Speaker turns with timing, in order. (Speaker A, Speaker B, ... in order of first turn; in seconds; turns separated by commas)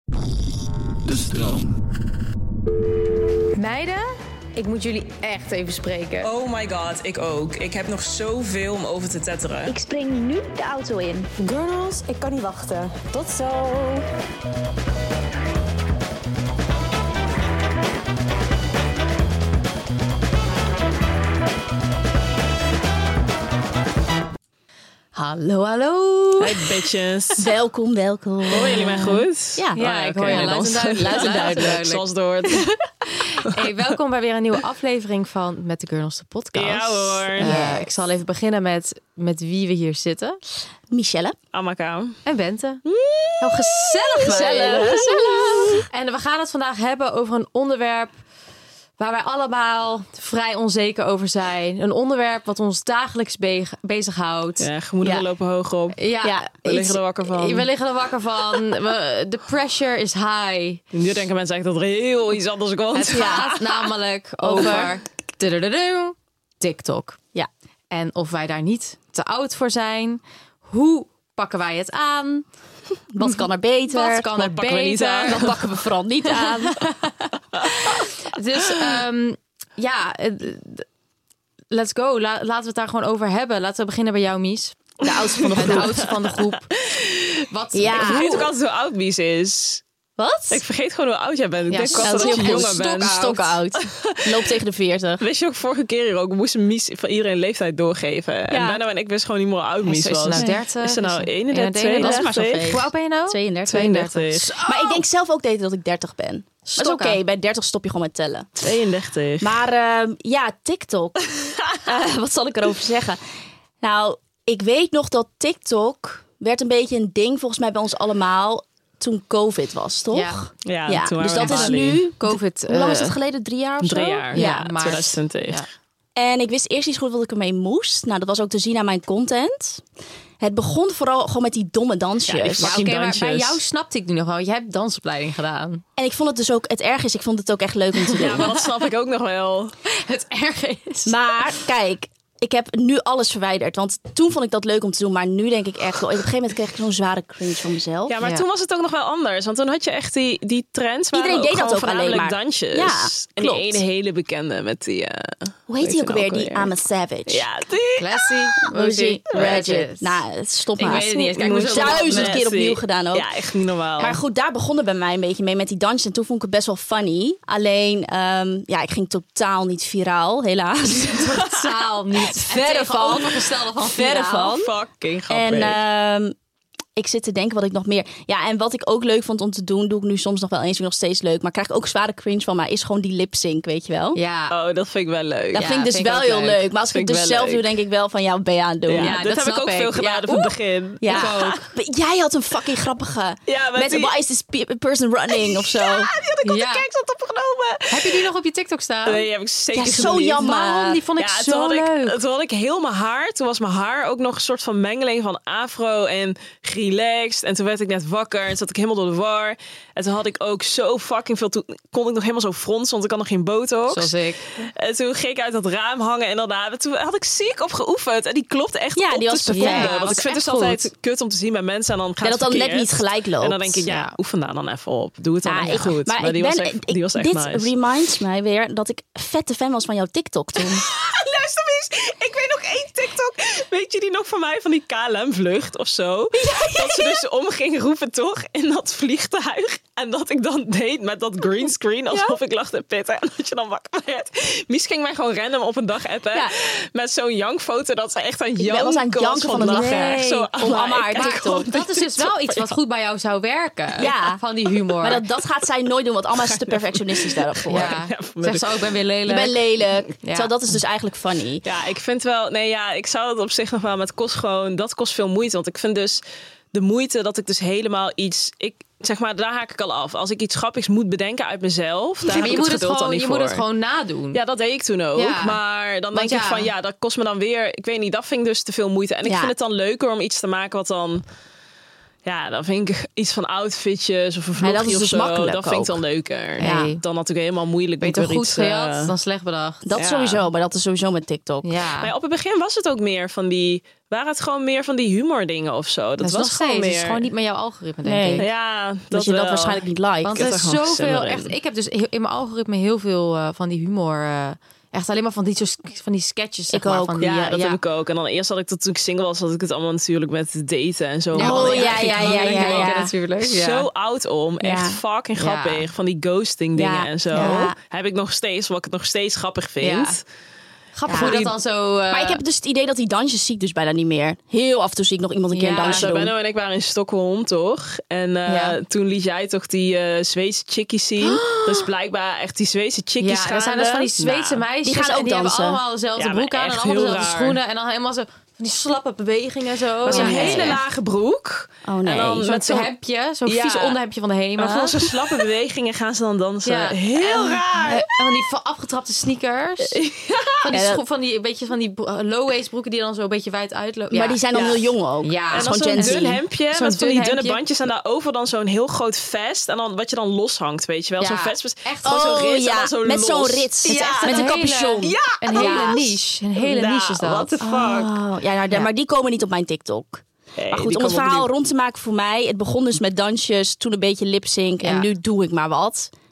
Speaker A: 3.5-6.3, Speaker B: 6.2-9.7, Speaker A: 9.7-14.0, Speaker A: 25.1-26.7, Speaker B: 26.4-27.4, Speaker C: 27.4-31.7, Speaker B: 28.5-32.6, Speaker A: 29.7-32.0, Speaker A: 33.4-40.4, Speaker B: 36.5-37.6, Speaker C: 37.4-37.9, Speaker C: 40.9-41.4, Speaker B: 41.5-42.2, Speaker A: 42.2-42.8, Speaker B: 43.0-45.7, Speaker A: 43.4-48.1, Speaker C: 44.2-45.8, Speaker A: 49.0-54.7, Speaker B: 54.6-56.0, Speaker A: 56.0-60.8, Speaker C: 56.2-56.5, Speaker B: 56.6-57.6, Speaker B: 60.9-63.7, Speaker A: 62.9-67.2, Speaker C: 63.1-63.5, Speaker C: 64.4-64.9, Speaker A: 67.9-72.5, Speaker C: 73.1-74.2, Speaker A: 73.2-77.2, Speaker B: 74.3-75.5, Speaker C: 75.3-76.9, Speaker A: 78.3-80.9, Speaker A: 81.7-85.0, Speaker C: 85.0-86.1, Speaker B: 85.3-85.9, Speaker A: 85.5-86.7, Speaker B: 86.8-87.4, Speaker A: 87.5-88.5, Speaker C: 87.7-88.3, Speaker B: 87.9-89.8, Speaker C: 90.2-90.6, Speaker B: 90.5-94.5, Speaker A: 91.7-93.4, Speaker C: 91.9-95.2, Speaker B: 95.2-102.8, Speaker C: 98.5-98.8, Speaker A: 99.8-105.0, Speaker C: 100.3-100.6, Speaker C: 101.9-108.7, Speaker B: 103.7-104.5, Speaker A: 106.7-107.2, Speaker B: 108.6-109.6, Speaker C: 109.4-113.2, Speaker C: 113.8-124.9, Speaker A: 120.1-120.5, Speaker B: 120.7-122.0, Speaker A: 121.3-123.1, Speaker B: 123.8-125.6, Speaker A: 124.3-125.7, Speaker C: 126.2-129.8, Speaker C: 130.4-132.8, Speaker B: 132.3-133.6, Speaker A: 132.6-135.8, Speaker C: 136.0-138.5, Speaker B: 138.2-139.8, Speaker A: 139.9-141.2, Speaker C: 141.1-148.1, Speaker B: 148.1-156.7, Speaker C: 151.1-153.8, Speaker C: 155.7-157.4, Speaker B: 157.3-159.8, Speaker A: 157.9-160.2, Speaker C: 158.7-163.3, Speaker A: 160.8-162.4, Speaker B: 160.9-164.2, Speaker C: 164.0-171.3, Speaker A: 171.0-174.5, Speaker C: 172.3-174.7, Speaker B: 174.4-175.8, Speaker C: 175.3-176.3, Speaker C: 176.9-184.2, Speaker A: 184.1-184.6, Speaker B: 184.5-185.7, Speaker A: 185.5-186.7, Speaker C: 185.6-189.2, Speaker B: 186.9-187.8, Speaker B: 188.9-191.4, Speaker A: 189.0-191.7, Speaker C: 191.0-196.1, Speaker B: 193.5-194.1, Speaker B: 195.3-198.3, Speaker A: 196.4-196.8, Speaker A: 197.9-199.2, Speaker B: 199.1-200.5, Speaker C: 199.7-201.0, Speaker A: 199.8-202.2, Speaker B: 201.2-227.7, Speaker A: 213.9-214.7, Speaker C: 219.0-220.2, Speaker A: 219.5-220.9, Speaker C: 222.2-223.8, Speaker A: 223.9-224.1, Speaker C: 225.4-230.8, Speaker B: 230.8-252.7, Speaker C: 236.4-237.2, Speaker C: 248.6-251.7, Speaker A: 249.6-250.1, Speaker A: 251.1-255.2, Speaker C: 254.0-254.4, Speaker C: 255.0-257.9, Speaker B: 256.3-258.7, Speaker A: 257.7-260.5, Speaker C: 259.2-261.6, Speaker B: 261.6-266.2, Speaker B: 266.7-273.6, Speaker A: 272.3-274.4, Speaker C: 272.3-272.6, Speaker B: 274.3-281.2, Speaker A: 275.1-275.6, Speaker A: 276.1-276.7, Speaker C: 279.2-279.5, Speaker B: 282.2-289.1, Speaker C: 284.6-286.0, Speaker A: 286.6-287.0, Speaker C: 286.6-286.9, Speaker A: 288.0-289.8, Speaker C: 289.8-291.7, Speaker B: 289.9-290.4, Speaker A: 291.6-292.1, Speaker B: 292.0-297.2, Speaker A: 296.2-298.5, Speaker C: 298.0-298.5, Speaker B: 298.4-301.5, Speaker C: 299.1-300.5, Speaker A: 300.2-307.8, Speaker C: 306.7-307.2, Speaker B: 307.2-320.2, Speaker A: 311.3-313.9, Speaker C: 311.4-313.1, Speaker C: 314.6-315.0, Speaker A: 315.4-315.9, Speaker C: 316.7-317.7, Speaker A: 317.3-317.7, Speaker A: 319.8-320.2, Speaker A: 320.9-322.4, Speaker C: 321.1-321.6, Speaker B: 321.1-321.4, Speaker C: 322.1-326.3, Speaker A: 325.5-326.1, Speaker B: 325.8-334.6, Speaker A: 328.5-328.8, Speaker A: 331.2-331.8, Speaker A: 333.2-340.8, Speaker C: 334.8-335.8, Speaker B: 336.2-337.6, Speaker B: 340.1-342.9, Speaker C: 340.1-340.8, Speaker C: 341.9-342.5, Speaker A: 342.4-345.1, Speaker B: 343.4-343.9, Speaker B: 344.6-348.0, Speaker A: 346.6-350.0, Speaker B: 350.1-350.5, Speaker A: 350.6-354.4, Speaker C: 350.7-351.0, Speaker C: 354.1-356.4, Speaker B: 354.5-354.9, Speaker A: 355.2-357.6, Speaker B: 355.5-368.1, Speaker A: 361.2-362.2, Speaker C: 362.0-366.0, Speaker A: 363.9-367.6, Speaker C: 367.6-376.1, Speaker B: 370.6-371.5, Speaker A: 374.8-375.1